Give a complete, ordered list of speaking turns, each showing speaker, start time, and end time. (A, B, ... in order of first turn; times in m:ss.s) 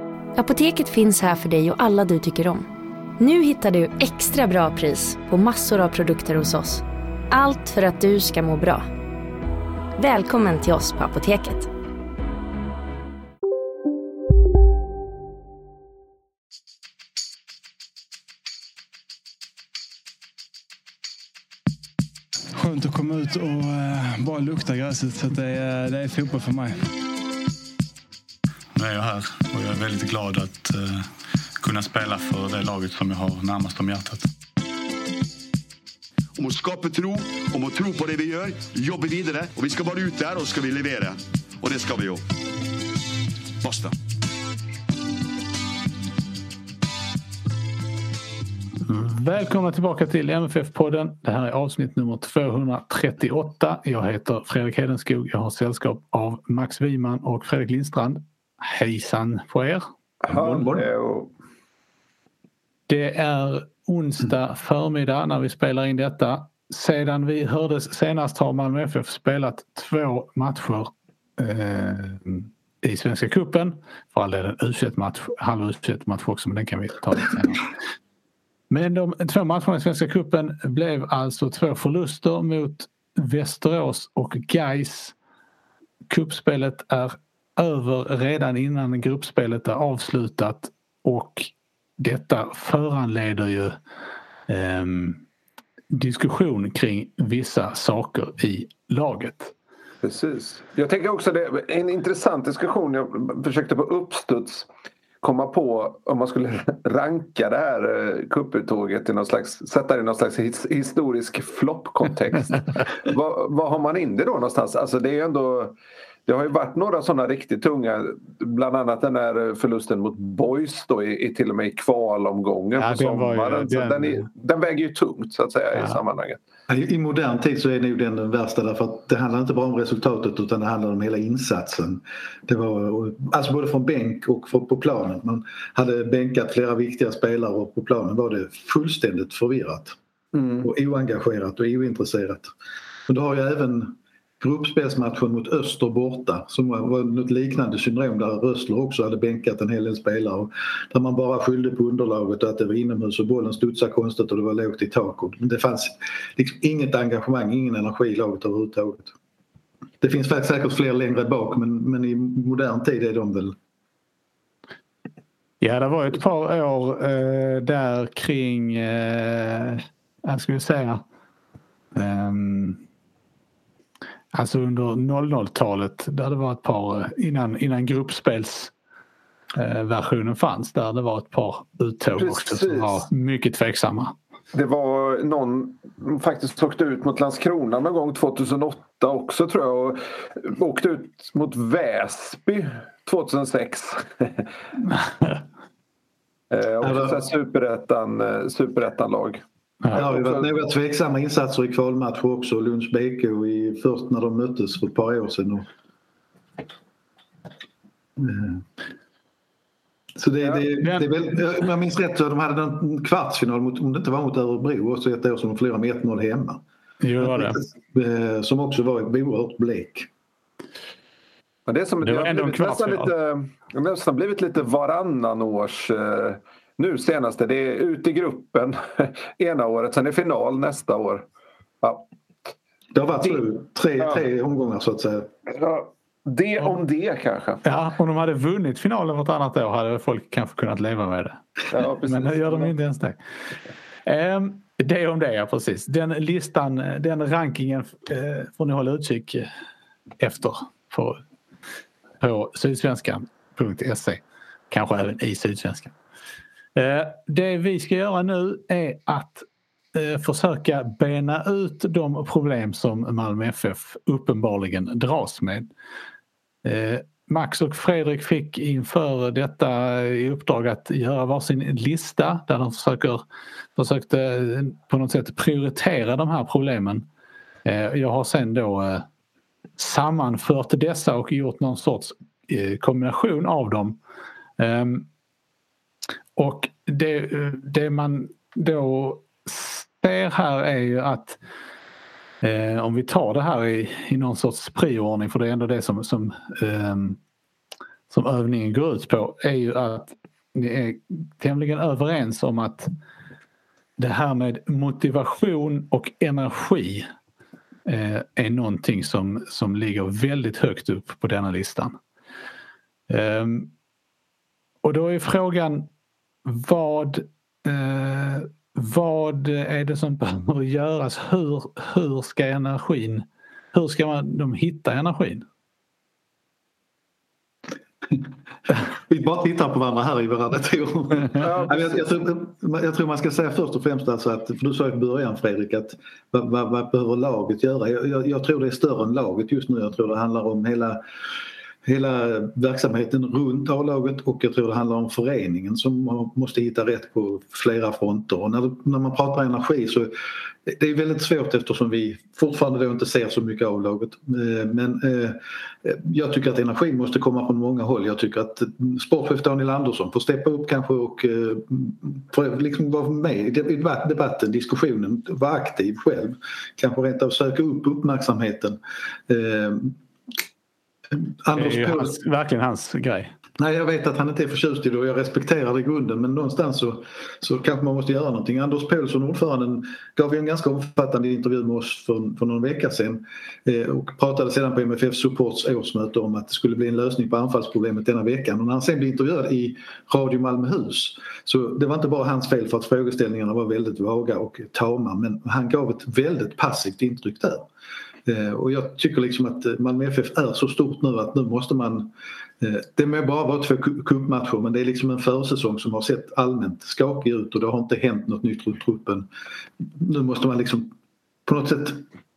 0:00.4-0:08.9 A
0:10.0-0:11.7 A
0:22.6-0:26.9 B
0:28.7-0:31.1 C
0:31.6-0:34.3 C
0:36.4-0:42.2 D
0:43.6-0:43.9 D
0:48.8-1:00.7 E
1:00.3-1:01.3 F
1:02.9-1:17.7 E
1:18.7-1:25.1 E
1:26.1-1:33.8 E
1:34.5-1:35.2 E
1:35.9-1:39.5 E
1:40.0-1:44.7 F
1:45.2-2:06.4 F
2:02.8-2:04.3 E
2:06.7-2:19.9 G
2:20.3-2:20.7 F
2:20.6-2:22.5 G
2:23.1-2:39.1 G
2:40.0-2:43.6 G
2:45.6-2:51.0 E
2:51.9-2:52.8 E
2:54.3-2:58.7 E
2:59.5-3:04.1 E
3:02.2-3:03.0 F
3:04.5-3:14.5 F
3:16.5-3:20.5 F
3:16.8-3:17.2 G
3:19.9-3:25.7 G
3:28.2-3:28.6 G
3:30.2-3:36.6 G
3:37.0-3:37.6 E
3:37.2-3:40.1 G
3:41.7-3:51.2 F
3:42.0-3:43.1 E
3:52.9-3:55.3 G
3:55.5-3:57.6 F
3:57.6-4:01.4 E
4:01.7-4:02.7 F
4:02.0-4:03.2 E
4:04.0-4:09.5 E
4:10.2-4:11.2 E
4:12.2-4:15.9 E
4:16.8-4:25.7 E
4:26.6-4:33.2 E
4:33.8-4:37.0 E
4:37.6-4:39.1 E
4:39.8-4:44.0 E
4:44.6-4:45.1 E
4:46.4-4:51.4 E
4:52.4-4:57.2 E
4:58.1-5:02.9 E
5:04.0-5:07.0 E
5:07.8-5:12.0 E
5:13.1-5:13.7 E
5:14.8-5:15.9 E
5:16.4-5:25.4 E
5:29.1-5:41.0 G
5:31.4-5:32.0 F
5:41.8-5:50.1 G
5:50.6-6:10.0 G
6:11.1-6:12.1 G
6:11.5-6:13.3 E
6:13.6-6:37.7 G
6:38.2-6:49.3 G
6:50.0-6:50.9 G
6:51.4-6:52.0 G